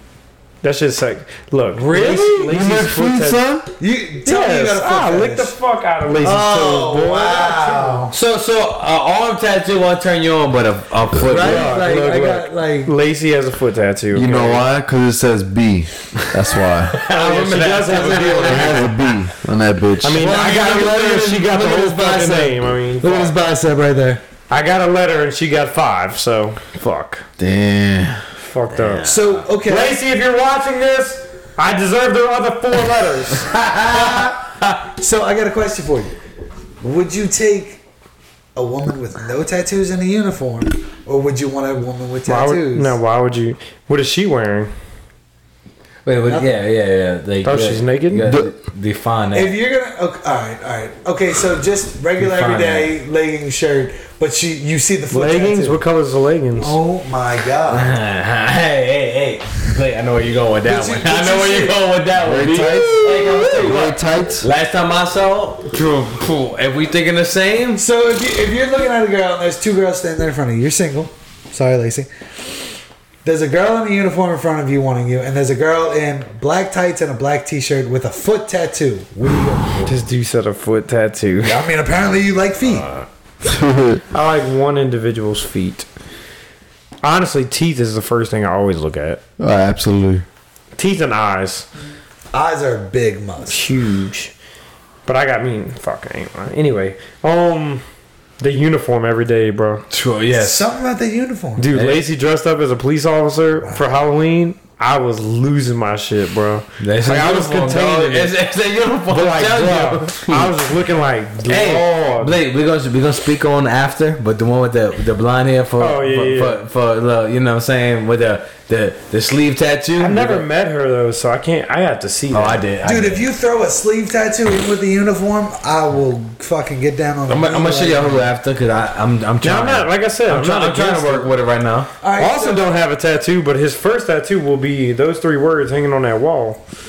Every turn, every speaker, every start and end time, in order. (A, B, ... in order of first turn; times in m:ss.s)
0:00.6-0:03.4 A
0:01.8-0:02.4 B
0:01.9-0:03.7 C
0:03.8-0:05.5 B
0:04.2-0:08.0 A
0:06.2-0:08.1 B
0:08.1-0:11.8 D
0:11.2-0:12.9 B
0:11.3-0:14.6 A
0:14.1-0:17.0 C
0:16.9-0:19.0 D
0:17.1-0:18.9 A
0:17.9-0:18.5 B
0:18.4-0:20.3 C
0:20.0-0:23.4 A
0:20.1-0:24.2 B
0:24.5-0:27.2 A
0:27.4-0:28.2 C
0:28.4-0:29.1 A
0:28.7-0:29.5 D
0:29.1-0:30.0 B
0:29.6-0:33.6 A
0:33.5-0:34.6 D
0:33.6-0:34.4 B
0:35.0-0:36.1 B
0:36.8-0:37.8 B
0:38.6-0:43.0 B
0:42.3-0:44.7 A
0:46.0-0:49.6 D
0:46.3-0:46.5 B
0:47.4-0:48.3 A
0:48.2-0:48.5 C
0:49.3-0:55.8 B
0:52.2-0:52.9 D
0:55.1-0:56.8 A
0:56.6-0:58.0 B
0:57.7-1:07.8 D
1:00.6-1:01.9 B
1:02.2-1:04.5 C
1:02.4-1:03.8 B
1:07.8-1:12.1 B
1:13.2-1:20.0 B
1:19.8-1:21.6 A
1:21.4-1:22.9 B
1:23.4-1:24.0 C
1:24.1-1:25.9 A
1:27.0-1:29.2 A
1:29.4-1:30.2 C
1:30.8-1:31.7 A
1:32.3-1:33.7 B
1:33.5-1:34.3 A
1:35.1-1:37.8 A
1:38.4-1:39.8 A
1:39.9-1:40.7 D
1:40.3-1:41.7 B
1:41.6-1:48.3 A
1:41.7-1:42.0 D
1:43.6-1:43.9 B
1:46.8-1:50.5 D
1:49.1-1:52.3 A
1:51.4-2:00.4 D
1:55.8-1:56.6 A
2:00.0-2:02.6 A
2:02.3-2:03.3 D
2:02.8-2:08.3 B
2:07.3-2:11.9 D
2:09.4-2:11.3 A
2:12.0-2:12.7 B
2:12.2-2:16.6 A